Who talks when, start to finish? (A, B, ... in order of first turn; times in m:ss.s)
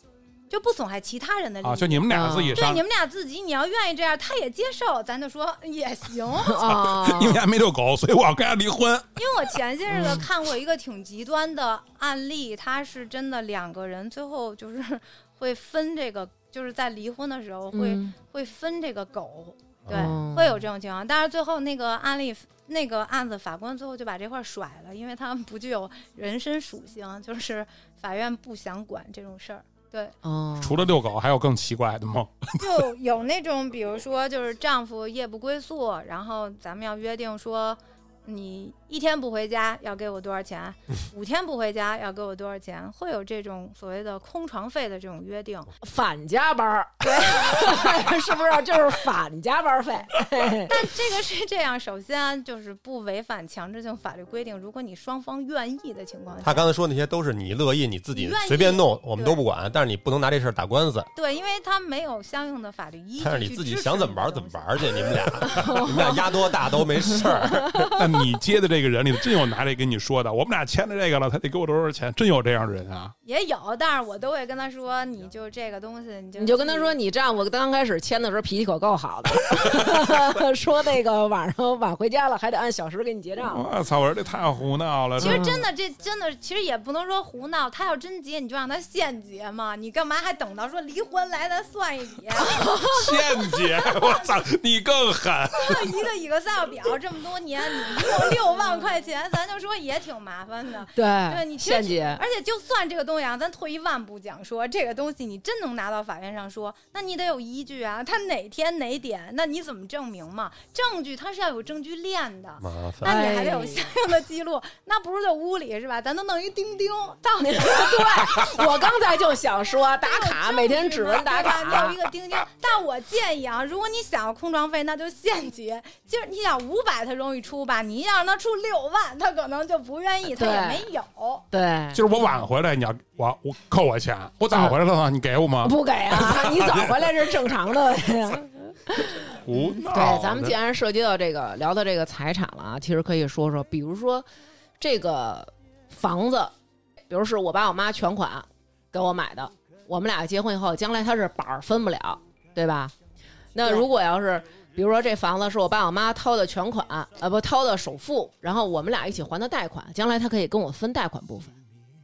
0:00.5-0:06.6 A
0:01.6-0:02.8 B
0:02.1-0:02.6 C
0:06.4-0:07.4 C
0:06.6-0:09.2 B
0:09.2-0:30.1 A
0:09.9-0:10.2 C
0:17.7-0:18.1 C
0:19.9-0:20.1 D
0:19.9-0:20.6 C
0:30.2-0:30.8 C
0:30.6-0:32.8 B
0:32.6-0:45.7 A
0:45.8-0:50.8 C
0:47.0-0:48.2 A
0:50.7-0:56.7 A
0:56.4-1:01.1 D
0:58.1-0:59.4 A
1:01.1-1:05.3 A
1:03.2-1:07.9 D
1:05.5-1:06.2 C
1:07.1-1:08.0 C
1:07.9-1:13.1 B
1:13.2-1:16.9 A
1:16.4-1:23.7 C
1:19.5-1:20.0 B
1:23.5-1:25.5 B
1:25.2-1:25.6 C
1:25.2-1:34.4 A
1:32.4-1:33.0 C
1:32.9-1:36.0 B
1:35.6-1:58.3 A
1:41.0-1:42.2 C
1:52.6-1:53.1 D
1:53.0-1:53.9 C
1:57.4-2:02.0 C
1:59.9-2:11.4 A
2:10.4-2:10.8 C
2:11.5-2:12.0 C
2:11.9-2:17.6 B
2:15.6-2:24.2 C
2:19.4-2:20.6 B
2:24.8-2:26.5 C
2:27.1-2:32.9 C
2:33.5-2:41.6 C